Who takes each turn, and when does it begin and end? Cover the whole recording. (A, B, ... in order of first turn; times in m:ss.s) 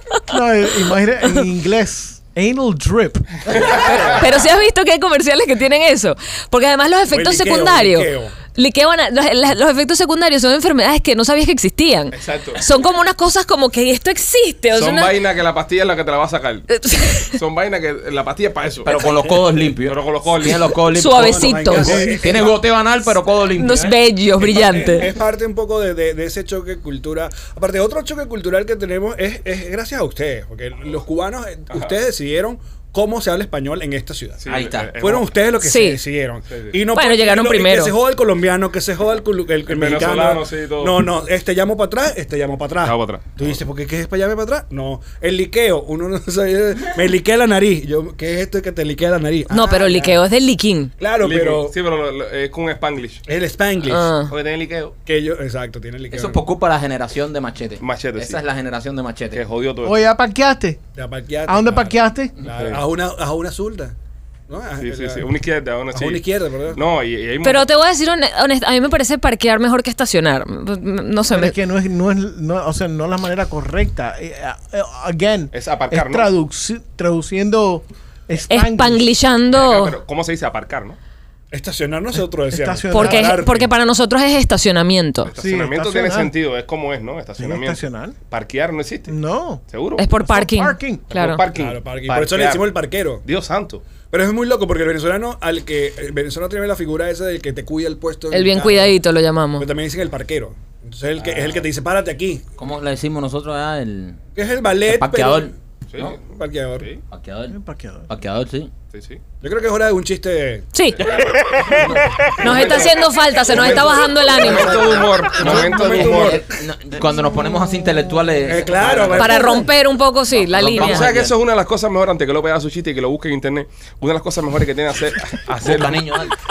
0:00.3-0:03.5 A
0:03.5-0:04.3 B
0:03.6-0:04.2 C
0:03.7-0:15.2 D
0:07.1-0:08.4 C
0:12.1-0:12.6 B
0:14.7-0:18.9 B
0:16.7-0:17.4 D
0:18.8-0:24.0 E
0:18.9-0:19.4 C
0:19.8-0:20.8 B
0:20.9-0:22.1 D
0:21.0-0:22.6 C
0:23.6-0:25.1 D
0:24.4-0:50.2 C
0:34.4-0:35.4 B
0:34.5-0:34.9 E
0:35.6-0:36.0 D
0:36.5-0:36.7 B
0:36.9-0:37.9 D
0:39.7-0:41.0 B
0:42.8-0:43.6 B
0:49.5-0:50.9 D
0:51.0-0:51.8 C
0:51.2-0:53.2 B
0:53.2-0:54.1 C
0:53.9-0:54.3 D
0:54.3-0:54.9 B
0:55.1-0:56.4 C
0:56.1-0:59.4 E
0:57.8-0:58.4 B
0:59.3-1:00.0 B
0:59.8-1:00.8 A
1:00.9-1:04.0 C
1:01.5-1:02.4 A
1:04.5-1:05.3 C
1:04.8-1:07.7 B
1:05.9-1:06.8 C
1:07.4-1:11.5 D
1:11.3-1:19.1 A
1:15.5-1:16.3 B
1:18.5-1:20.0 D
1:19.5-1:21.0 B
1:21.5-1:23.7 C
1:22.5-1:23.4 A
1:22.9-1:25.3 D
1:25.2-1:29.1 B
1:25.4-1:26.3 A
1:27.4-1:28.1 A
1:29.1-1:29.6 A
1:29.7-1:30.1 B
1:30.0-1:31.4 D
1:30.2-1:31.1 A
1:31.1-1:32.7 B
1:31.5-1:33.2 C
1:33.2-1:33.8 B
1:34.1-1:39.0 C
1:38.3-1:39.7 D
1:39.6-1:42.4 C
1:41.2-1:41.5 E
1:42.6-1:44.2 E
1:44.4-1:45.5 C
1:44.9-1:46.2 E
1:45.9-1:47.0 B
1:46.3-1:46.9 C
1:47.1-1:48.7 E
1:47.5-1:48.1 A
1:48.9-1:49.2 B
1:49.4-1:50.7 C
1:50.7-1:51.0 D
1:51.0-1:56.4 B
1:52.2-1:52.9 C
1:52.4-1:54.8 D
1:53.5-1:56.4 C
1:55.4-1:59.5 E
1:58.4-1:59.7 C
1:59.1-2:01.1 D
2:00.3-2:01.4 E
2:00.8-2:06.0 B
2:05.6-2:06.3 E